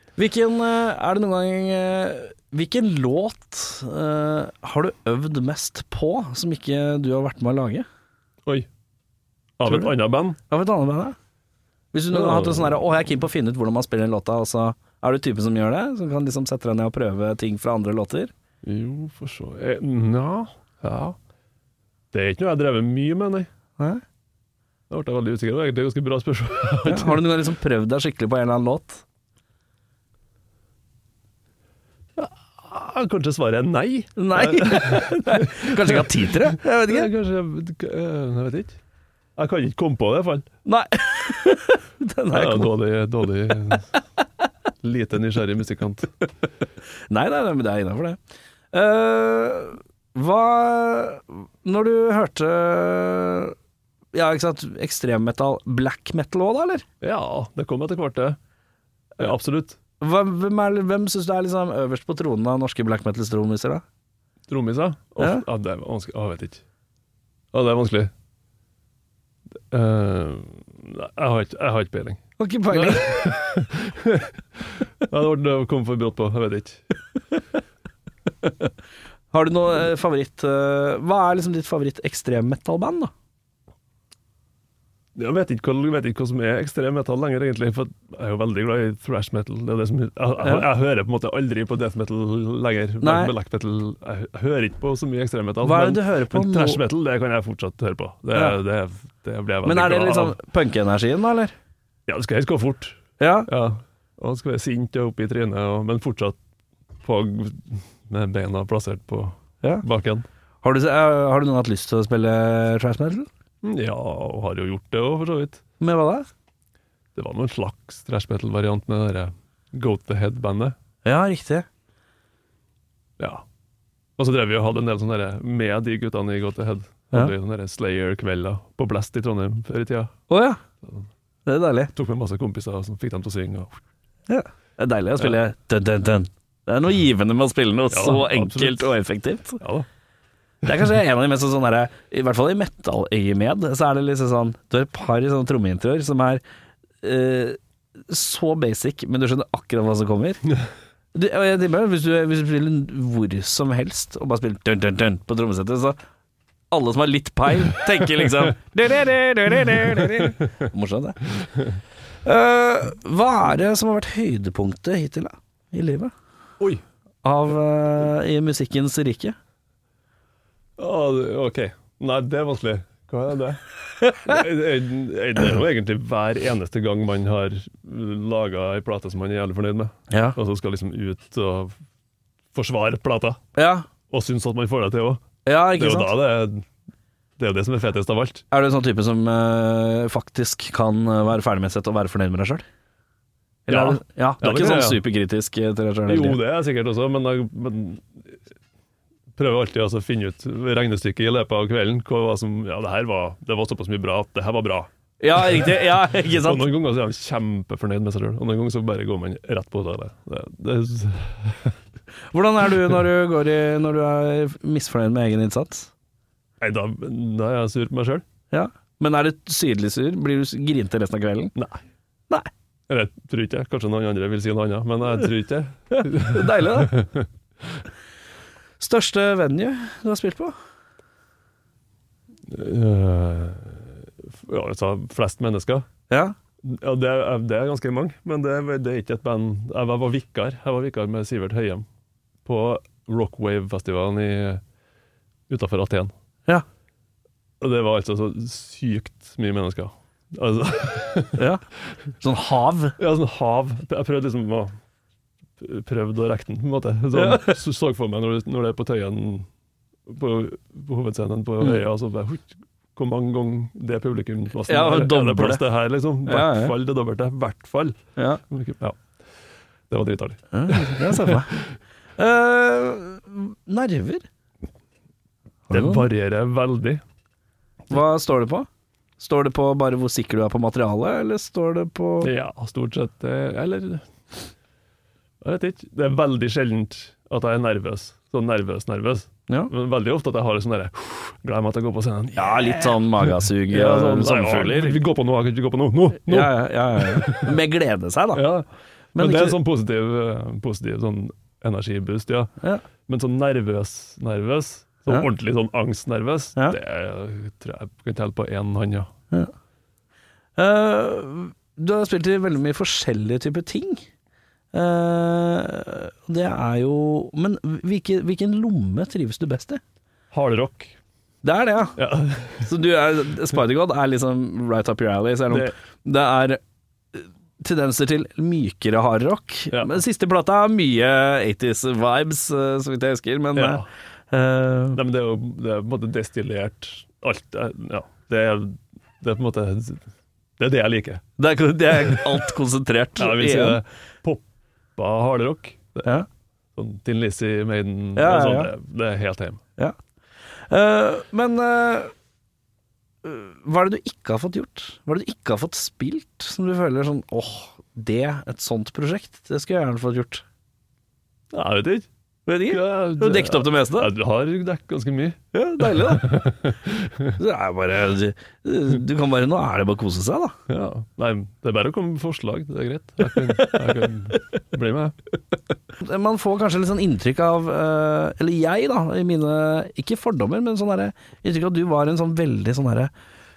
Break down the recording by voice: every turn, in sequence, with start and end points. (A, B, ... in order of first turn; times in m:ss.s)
0:00.2-0:07.8 A
0:09.6-0:10.4 B
0:09.6-0:09.9 A
0:10.5-0:11.2 A
0:11.9-0:18.3 A
0:12.1-0:12.8 B
0:18.6-0:21.2 B
0:22.1-0:23.5 B
0:24.9-0:27.2 B
0:26.8-0:29.0 A
0:32.2-0:38.8 B
0:34.2-0:37.1 A
0:39.4-0:40.5 B
0:40.6-0:42.7 A
0:42.3-0:44.0 B
0:44.8-0:46.1 B
0:47.1-0:48.2 A
0:48.7-0:53.5 A
0:54.1-0:56.8 A
0:57.0-0:58.4 B
0:59.2-0:59.8 B
1:00.0-1:03.8 A
1:04.5-1:06.6 B
1:05.2-1:05.4 A
1:07.5-1:08.1 B
1:09.7-1:16.8 B
1:12.4-1:13.4 A
1:19.3-1:23.1 A
1:25.1-1:40.4 B
1:33.0-1:33.3 A
1:35.6-1:36.8 A
1:39.6-1:41.5 A
1:42.1-1:46.4 B
1:43.2-1:43.5 A
1:47.0-1:50.3 B
1:50.6-1:53.3 A
1:53.6-1:55.6 B
1:55.8-1:56.3 A
1:57.1-2:00.8 B
2:01.0-2:01.7 A
2:03.2-2:03.4 B
2:04.2-2:10.1 B
2:10.3-2:10.6 A
2:11.4-2:11.9 A
2:11.9-2:13.8 B
2:14.3-2:19.6 A
2:17.9-2:18.9 B
2:19.6-2:19.9 B
2:20.6-2:26.4 A
2:27.0-2:30.5 A
2:31.1-2:36.0 A
2:36.7-2:41.2 A
2:42.2-2:46.1 A
2:47.2-2:49.4 A
2:50.8-3:01.8 B
3:00.1-3:00.4 A
3:02.5-3:03.4 B
3:03.6-3:03.9 A
3:04.1-3:06.7 B
3:05.4-3:06.1 A
3:07.4-3:08.4 B
3:08.5-3:12.6 A
3:13.7-3:16.4 A
3:13.7-3:15.0 B
3:16.1-3:18.4 B
3:19.4-3:31.8 B
3:25.2-3:26.7 A
3:32.3-3:35.9 A
3:36.6-3:38.2 B
3:38.5-3:41.5 A
3:41.6-3:41.8 B
3:42.9-3:47.8 B
3:45.9-3:47.0 A
3:48.8-3:50.5 A
3:52.5-3:55.9 B
3:56.1-3:56.3 A
3:56.6-4:01.8 B
4:02.4-4:04.6 B
4:05.5-4:06.1 B
4:07.6-4:11.4 B
4:11.4-4:11.6 A
4:12.2-4:13.0 A
4:13.0-4:14.8 B
4:15.6-4:19.5 B
4:17.1-4:17.6 A
4:20.1-4:28.0 B
4:24.7-4:25.6 A
4:26.2-4:26.7 A
4:28.5-4:29.0 B
4:29.9-4:31.6 B
4:30.5-4:31.6 A
4:32.2-4:34.2 A
4:35.7-4:36.1 A
4:35.7-4:37.0 B
4:37.9-4:38.7 A
4:39.2-4:42.3 A
4:42.2-4:44.0 B
4:45.4-4:57.5 B
4:52.3-4:55.0 A
4:56.2-4:58.4 A
4:58.3-5:02.5 B
4:59.1-4:59.6 A
5:03.0-5:09.1 B
5:10.6-5:14.0 A
5:14.7-5:19.8 A
5:20.3-5:21.0 B
5:21.4-5:22.0 A
5:22.0-5:22.7 B
5:22.6-5:26.6 A
5:25.5-5:25.7 B
5:27.1-5:35.0 A
5:33.5-5:33.9 B
5:34.9-5:40.0 B
5:40.6-5:41.2 B
5:41.4-5:43.8 A
5:41.9-5:42.3 B
5:43.2-5:44.4 B
5:45.0-5:46.1 B
5:46.7-5:49.6 B
5:48.1-5:48.7 A
5:50.7-5:52.1 A
5:53.2-6:00.4 A
6:01.5-6:02.1 B
6:02.5-6:04.1 A
6:02.6-6:07.3 B
6:05.5-6:06.5 A
6:07.4-6:10.5 A
6:10.7-6:15.2 B
6:13.5-6:14.1 A
6:16.0-6:23.1 A